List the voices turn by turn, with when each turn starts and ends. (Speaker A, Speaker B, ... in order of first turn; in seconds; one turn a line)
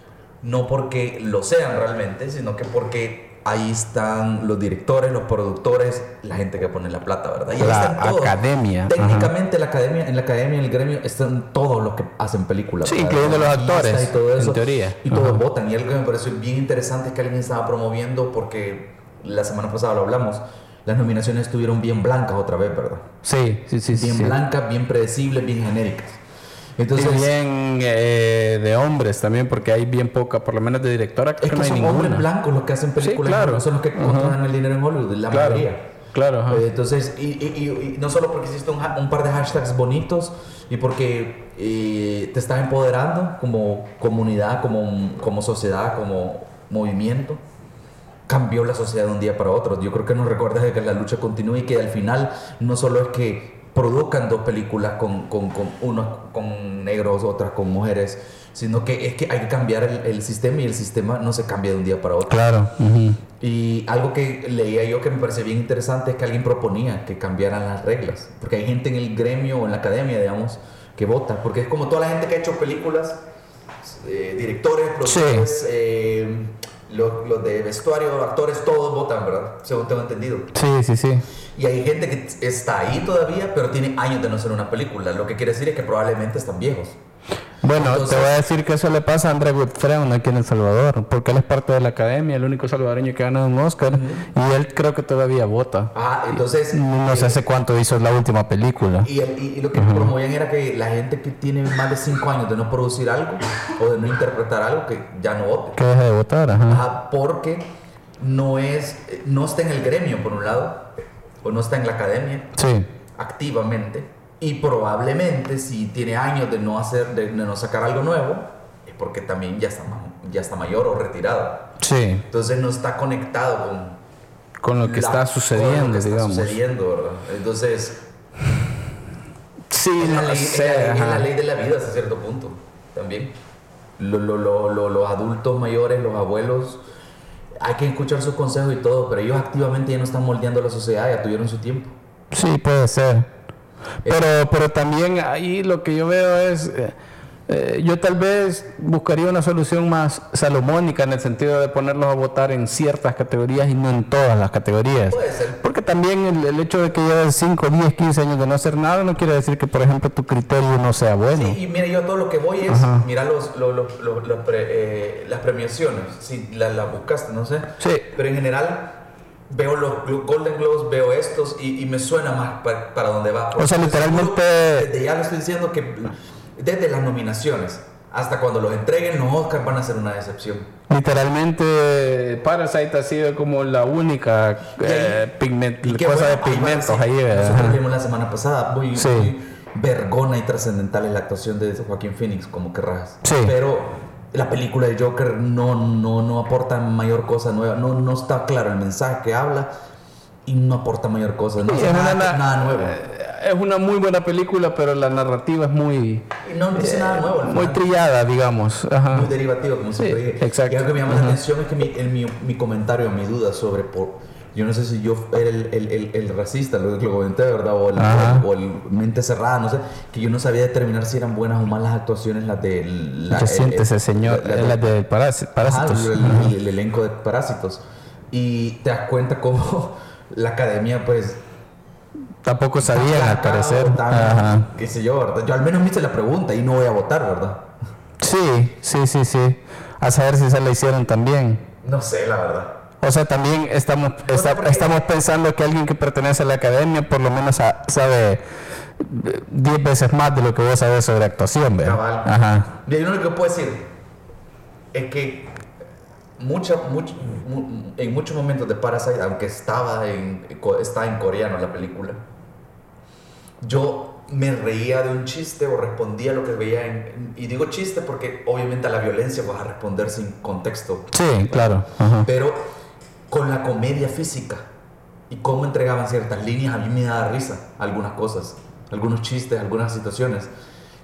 Speaker A: 0.4-23.1
Speaker B: 7.6-9.3
Speaker B: 12.8-15.4
Speaker B: 23.2-24.4
Speaker A: 23.9-26.2
Speaker A: 26.8-27.3
Speaker B: 26.9-32.3
Speaker A: 31.4-35.9
Speaker B: 33.0-34.4
Speaker B: 35.3-36.6
Speaker A: 36.5-47.4
Speaker A: 48.3-62.5
Speaker B: 62.3-63.2
Speaker A: 63.4-73.2
Speaker A: 73.8-80.5
Speaker B: 75.0-75.5
Speaker B: 80.5-81.3
Speaker A: 81.5-87.0
Speaker B: 87.6-95.9
Speaker A: 87.7-88.4
Speaker A: 93.9-94.2
Speaker A: 95.9-97.4
Speaker B: 96.7-99.1
Speaker A: 99.0-105.8
Speaker B: 99.8-100.1
Speaker B: 105.8-106.8
Speaker A: 106.7-107.7
Speaker A: 108.2-110.9
Speaker A: 111.4-112.5
Speaker B: 112.6-112.9
Speaker A: 113.2-121.7
Speaker B: 121.8-122.2
Speaker A: 122.3-124.0
Speaker B: 124.6-126.5
Speaker A: 124.8-128.0
Speaker B: 129.7-131.3
Speaker A: 130.0-133.3
Speaker A: 134.0-136.8
Speaker A: 137.6-141.9
Speaker B: 142.3-143.3
Speaker B: 144.1-146.9
Speaker B: 147.5-161.6
Speaker A: 155.1-155.6
Speaker A: 161.3-180.7
Speaker B: 162.7-163.1
Speaker B: 167.8-168.1
Speaker B: 173.6-174.9
Speaker B: 180.9-187.8
Speaker A: 184.8-185.2
Speaker A: 185.8-199.7
Speaker B: 188.9-189.3
Speaker B: 193.2-193.6
Speaker A: 200.5-203.0
Speaker B: 201.6-209.3
Speaker A: 206.4-207.8
Speaker A: 209.1-225.0
Speaker B: 210.0-211.4
Speaker B: 218.0-218.5
Speaker B: 223.3-226.5
Speaker A: 225.6-231.4
Speaker B: 232.4-234.7
Speaker A: 232.8-237.7
Speaker B: 238.2-241.6
Speaker A: 241.8-242.8
Speaker B: 243.0-248.4
Speaker A: 244.3-245.1
Speaker B: 249.0-252.7
Speaker A: 251.8-253.9
Speaker A: 254.9-255.6
Speaker A: 256.4-262.2
Speaker A: 263.6-272.6
Speaker B: 271.1-272.3
Speaker A: 273.3-274.6
Speaker A: 275.3-280.5